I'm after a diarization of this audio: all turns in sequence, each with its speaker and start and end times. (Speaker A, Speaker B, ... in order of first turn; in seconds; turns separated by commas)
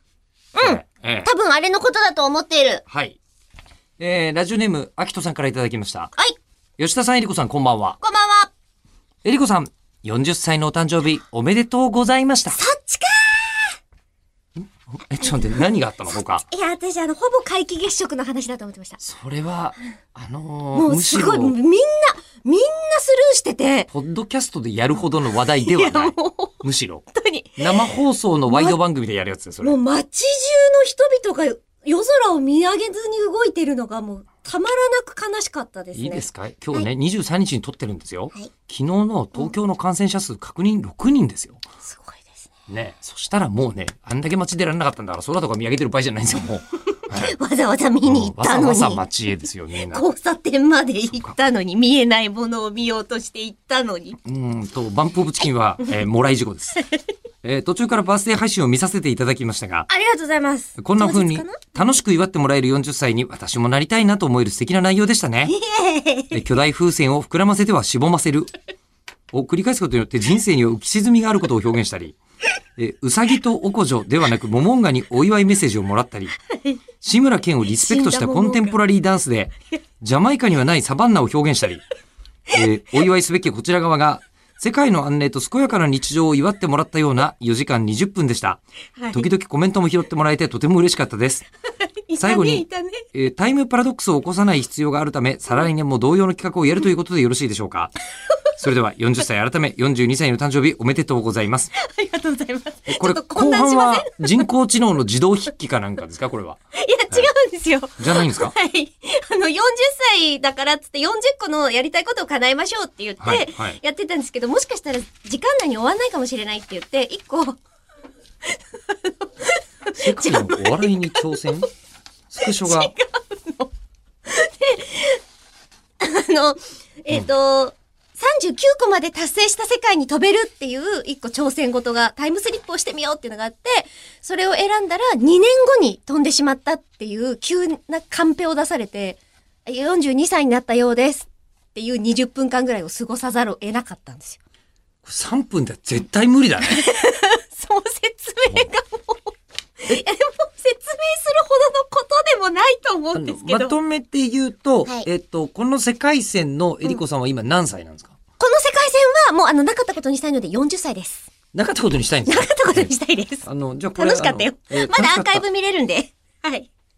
Speaker A: 0.6-2.8, Speaker B: 0.6-1.3, Speaker B: 2.9-3.2, Speaker B: 4.0-6.1, Speaker B: 6.8-8.0, Speaker A: 8.0-8.5, Speaker B: 9.2-12.6, Speaker A: 12.5-13.8, Speaker B: 14.6-16.4, Speaker A: 16.4-19.0, Speaker B: 19.0-21.6, Speaker A: 20.8-23.9, Speaker B: 23.9-27.1, Speaker A: 25.6-26.6, Speaker A: 27.1-27.9, Speaker B: 27.6-29.8, Speaker A: 28.5-28.8, Speaker A: 29.6-36.9, Speaker B: 36.0-41.6, Speaker A: 41.8-42.5, Speaker B: 42.7-47.4, Speaker A: 47.0-49.1, Speaker B: 48.0-50.0, Speaker A: 49.8-54.2, Speaker B: 54.2-56.9, Speaker B: 57.4-59.9, Speaker A: 59.9-61.9, Speaker B: 60.8-65.5, Speaker A: 65.5-66.4, Speaker B: 66.3-68.5, Speaker B: 69.3-72.2, Speaker B: 72.8-76.3, Speaker A: 76.5-76.8, Speaker B: 77.0-81.8, Speaker A: 77.8-78.8, Speaker B: 82.5-88.6, Speaker A: 89.0-89.3, Speaker B: 89.1-91.5, Speaker A: 92.1-93.1, Speaker B: 92.2-97.9, Speaker B: 98.5-101.7, Speaker A: 101.7-104.5, Speaker B: 102.9-106.6, Speaker A: 106.8-117.6, Speaker B: 108.0-108.5, Speaker B: 113.2-113.8, Speaker A: 118.5-121.7, Speaker B: 119.9-121.7, Speaker B: 122.3-122.9, Speaker A: 122.4-123.7, Speaker A: 124.3-125.2, Speaker A: 126.0-144.4, Speaker B: 145.0-146.8, Speaker A: 146.6-153.8, Speaker B: 153.1-158.2, Speaker A: 158.4-161.3, Speaker B: 161.5-162.9, Speaker A: 162.3-166.7, Speaker B: 163.4-165.4